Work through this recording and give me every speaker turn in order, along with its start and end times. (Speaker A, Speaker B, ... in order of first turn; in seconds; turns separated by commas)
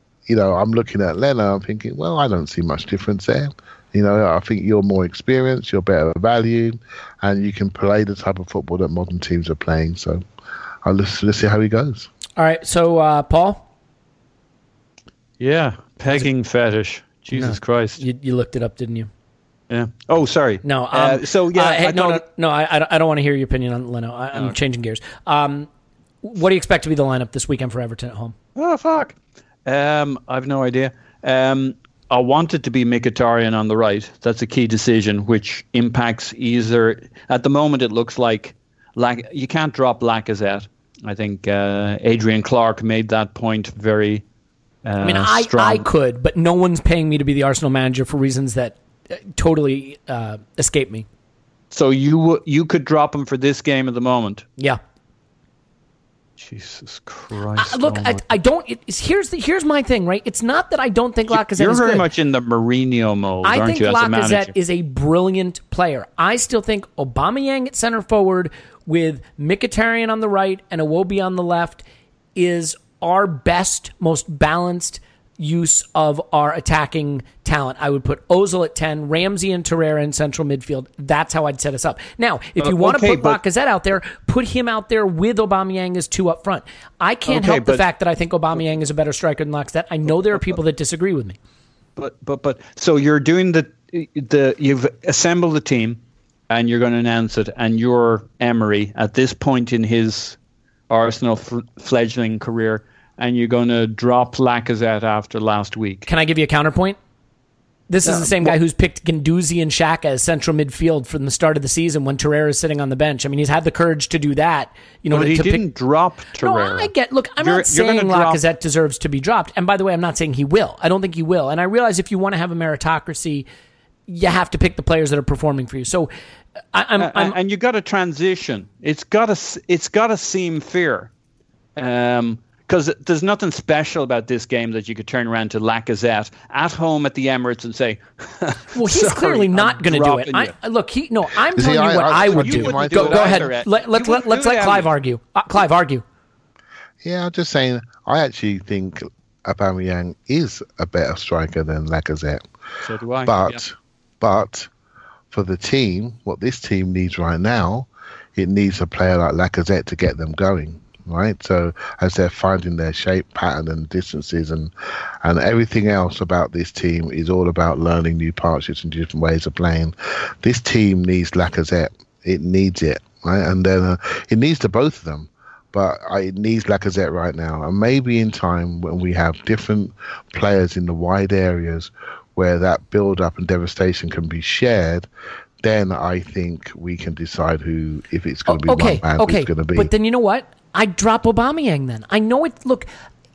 Speaker A: 0.3-10.2, Speaker A: 10.8-12.1, Speaker B: 12.4-13.6, Speaker C: 15.4-18.0, Speaker B: 17.3-19.1, Speaker C: 19.7-22.2, Speaker B: 20.6-25.7, Speaker B: 26.2-28.4, Speaker C: 28.6-29.1, Speaker C: 29.7-44.2, Speaker C: 44.8-45.8, Speaker B: 45.0-51.1, Speaker C: 51.7-54.5, Speaker C: 56.4-58.2, Speaker B: 57.6-62.1, Speaker C: 61.3-64.5, Speaker B: 63.4-71.8, Speaker B: 72.4-91.4, Speaker C: 82.6-83.4, Speaker C: 87.3-87.8, Speaker C: 92.0-100.4, Speaker C: 100.9-106.1, Speaker B: 106.1-107.0, Speaker B: 107.9-115.6, Speaker C: 108.0-108.6, Speaker C: 115.1-118.4, Speaker B: 116.4-123.5, Speaker B: 124.1-126.1, Speaker B: 126.7-127.4, Speaker C: 127.0-131.1, Speaker C: 131.8-140.5, Speaker B: 138.8-146.0, Speaker A: 141.6-143.5, Speaker C: 142.2-144.9, Speaker A: 147.0-152.4, Speaker C: 152.8-153.6, Speaker A: 153.2-154.7, Speaker A: 155.3-164.7, Speaker A: 165.2-185.1, Speaker A: 185.6-189.9, Speaker B: 188.5-192.9